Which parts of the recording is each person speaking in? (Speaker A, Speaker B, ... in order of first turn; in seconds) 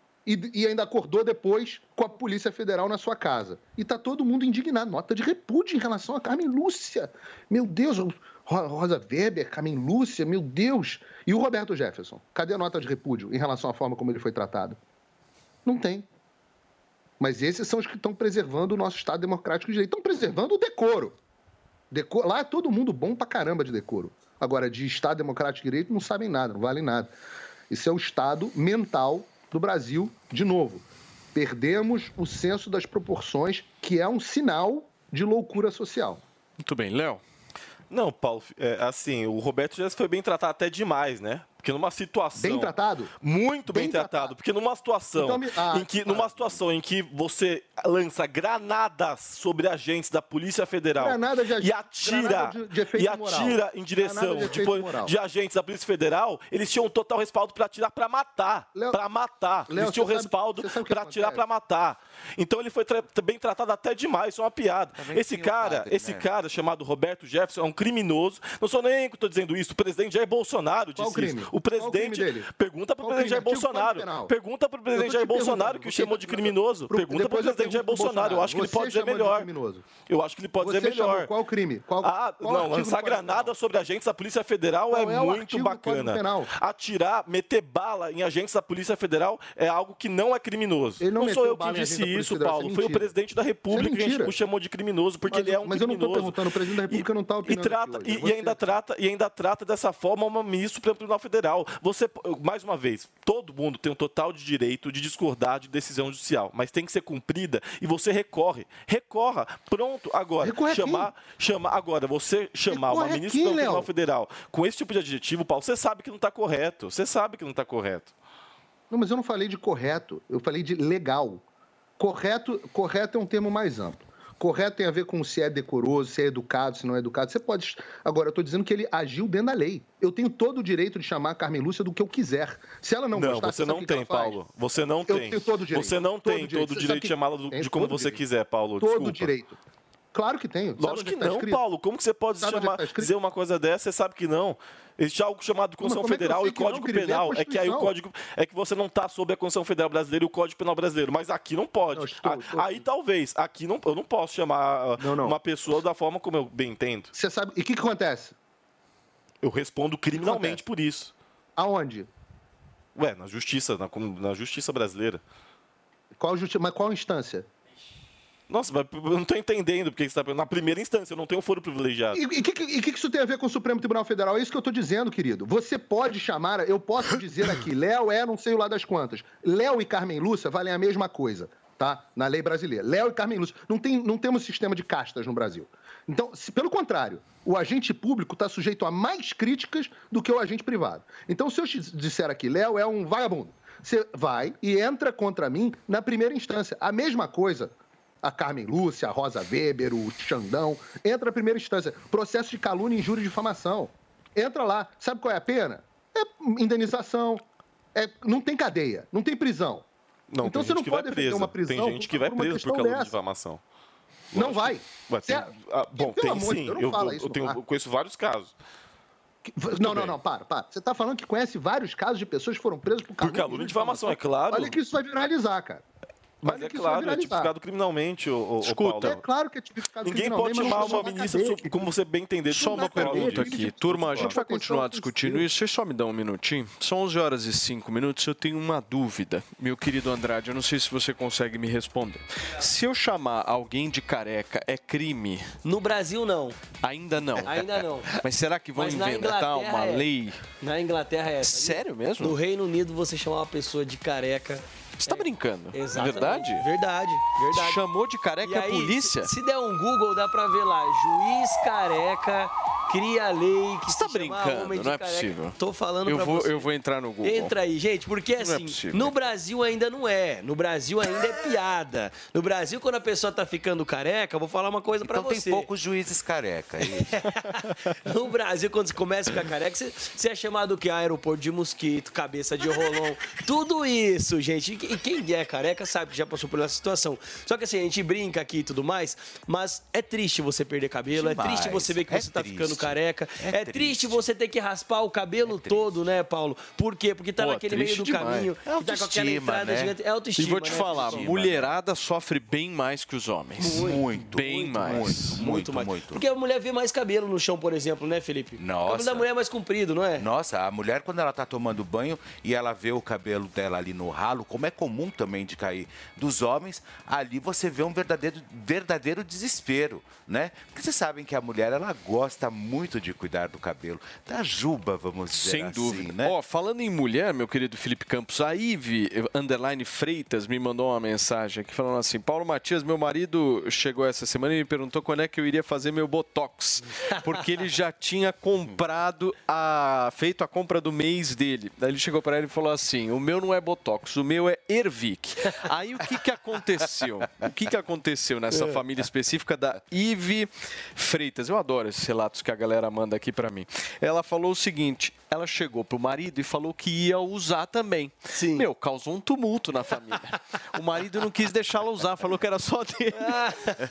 Speaker A: 0.3-14.8, 15.7-16.1, 17.2-21.2, 21.9-27.1, 27.7-36.2, 42.4-43.1, 43.7-44.3, 45.1-46.6, 51.0-55.1, 58.8-59.0, 59.7-61.4, 71.0-72.5, 73.0-74.3, 75.0-79.9, 80.6-83.5, 84.9-86.5, 91.0-93.1, 93.7-94.3, 95.3-98.6, 110.4-111.1, 112.7-113.9, 118.9-121.4, 122.0-134.4, 135.1-138.2, 138.8-139.6, 140.1-141.6, 142.4-143.1, 145.8-147.9, 151.9-152.8, 155.0-155.4, 157.2-158.4, 160.1-160.6, 161.6-162.1, 166.2-167.5, 172.2-207.4, 207.9-209.9, 210.4-213.2, 214.3-217.6, 219.5-225.8, 226.4-227.5, 229.0-231.8, 232.5-235.5
Speaker B: 36.6-37.2, 228.6-229.2, 230.6-231.0, 232.5-245.5, 246.8-250.4, 251.4-252.4, 255.0-256.6, 257.5-259.3, 263.9-267.6, 268.4-269.2, 297.4-298.6, 300.4-305.4, 325.3-363.4
Speaker C: 37.9-79.5, 80.1-81.3, 82.0-96.4, 96.9-118.1, 133.1-139.3, 140.8-157.1, 159.4-161.1, 163.0-165.2, 168.5-172.2, 210.3-213.6, 214.3-218.5, 219.8-220.2, 223.2-224.8, 226.4-229.2, 230.0-234.4
Speaker D: 65.0-66.3, 275.1-277.2, 291.1-294.2, 295.4-296.0, 298.6-299.9, 300.6-301.7, 303.7-306.2, 308.6-309.3, 310.2-326.4
Speaker E: 245.7-246.7, 247.4-248.2, 248.8-250.1, 250.6-257.8, 258.4-266.7, 267.2-275.7, 278.1-301.6, 303.6-310.2, 358.3-358.7, 363.2-363.7